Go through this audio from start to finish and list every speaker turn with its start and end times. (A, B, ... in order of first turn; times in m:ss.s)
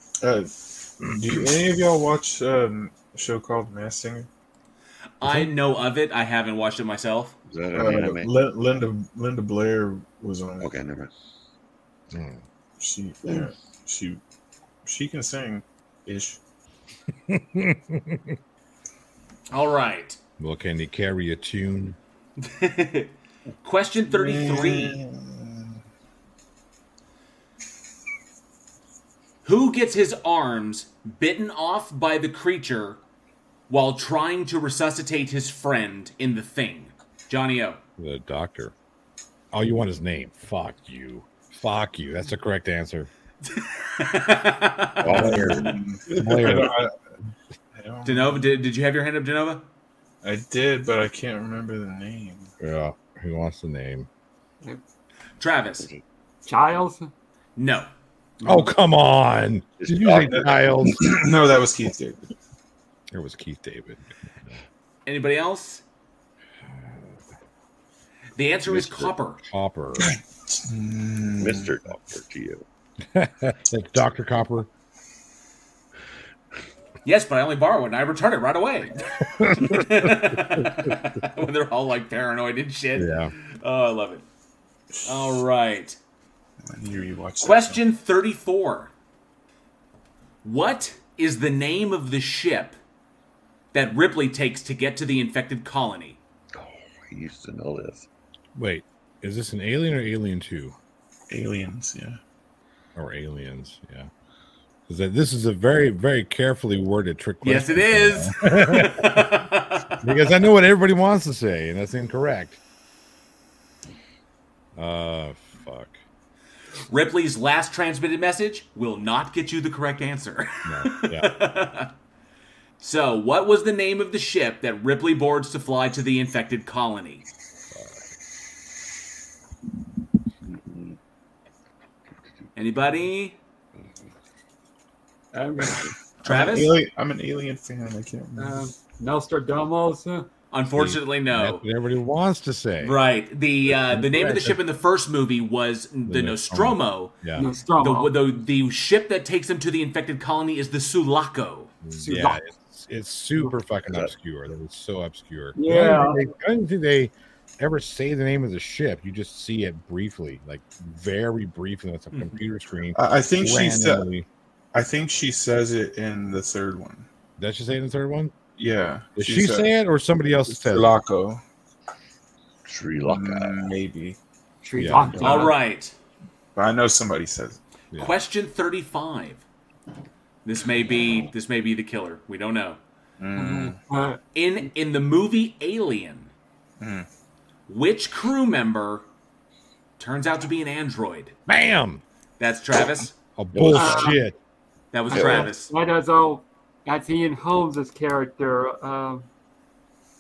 0:00.2-0:04.3 A
0:05.2-0:07.4 B
0:05.2-0:05.5 C
0:07.5-0:08.3 D
0:07.7-0:10.7 A
0:10.6-0:11.1 D
0:12.1-0:12.4 C
0:12.8-0:14.2 A
0:14.9-0:16.4 A
0:17.3-0:18.4 C
0:19.5-0:20.2 B
0:20.4-0:22.0 C
0:22.4-0:25.0 B
0:24.1-0:25.7 A
0:29.4-0:33.0 B
0:33.7-0:37.8 B
0:38.0-0:38.7 C
0:39.5-0:43.1 C
0:43.4-0:45.4 B
0:45.0-0:45.8 D
0:45.0-0:46.8 C
0:45.1-0:47.0 A
0:47.8-0:48.4 A
0:48.0-0:49.6 B
0:50.2-0:52.5 A
0:52.6-0:54.1 C
0:55.4-0:55.9 B
0:56.5-0:57.1 E
0:57.6-0:57.9 B
0:58.4-0:58.7 E
0:58.4-1:01.0 C
0:59.8-1:00.5 D
1:00.3-1:02.3 A
1:03.1-1:04.6 C
1:05.1-1:05.8 B
1:08.4-1:09.4 B
1:08.7-1:10.1 C
1:10.0-1:11.7 A
1:11.4-1:12.6 D
1:13.1-1:14.7 C
1:17.0-1:24.2 B
1:19.2-1:20.7 C
1:23.0-1:23.3 C
1:25.0-1:26.0 B
1:26.7-1:27.8 A
1:27.4-1:28.9 B
1:30.4-1:32.8 B
1:33.7-1:36.2 B
1:36.5-1:38.1 D
1:38.6-1:40.8 C
1:41.3-1:42.2 A
1:43.0-1:44.1 C
1:44.9-1:49.2 C
1:47.4-1:50.0 B
1:50.0-1:52.6 C
1:54.8-1:56.0 C
1:56.9-2:01.9 B
2:00.6-2:01.4 C
2:02.8-2:07.3 B
2:10.5-2:11.0 D
2:12.6-2:13.4 B
2:15.3-2:15.9 E
2:16.2-2:18.6 A
2:16.2-2:16.8 B
2:18.4-2:20.3 E
2:20.5-2:21.6 B
2:20.7-2:23.0 C
2:22.8-2:27.2 B
2:23.7-2:24.6 C
2:26.1-2:27.5 C
2:27.4-2:28.1 E
2:27.8-2:31.7 B
2:31.8-2:44.3 C
2:32.0-2:32.4 E
2:35.6-2:36.3 E
2:43.0-2:44.1 A
2:44.7-2:47.1 A
2:47.4-2:48.3 C
2:48.6-2:49.7 A
2:49.2-2:51.0 C
2:50.5-2:51.4 A
2:52.7-2:53.7 D
2:53.1-2:54.2 A
2:54.6-2:55.6 E
2:54.8-2:55.2 C
2:55.1-2:55.5 D
2:55.2-2:56.0 B
2:56.6-2:57.6 A
2:58.0-2:59.4 B
3:00.4-3:02.8 B
3:03.2-3:03.8 A
3:03.4-3:04.2 E
3:04.4-3:06.3 B
3:06.8-3:07.1 A
3:07.7-3:09.0 B
3:10.0-3:11.4 B
3:11.5-3:12.0 C
3:12.4-3:13.1 B
3:13.4-3:14.4 C
3:13.5-3:14.2 D
3:13.7-3:14.2 E
3:14.9-3:15.7 B
3:15.1-3:19.3 E
3:15.1-3:15.4 D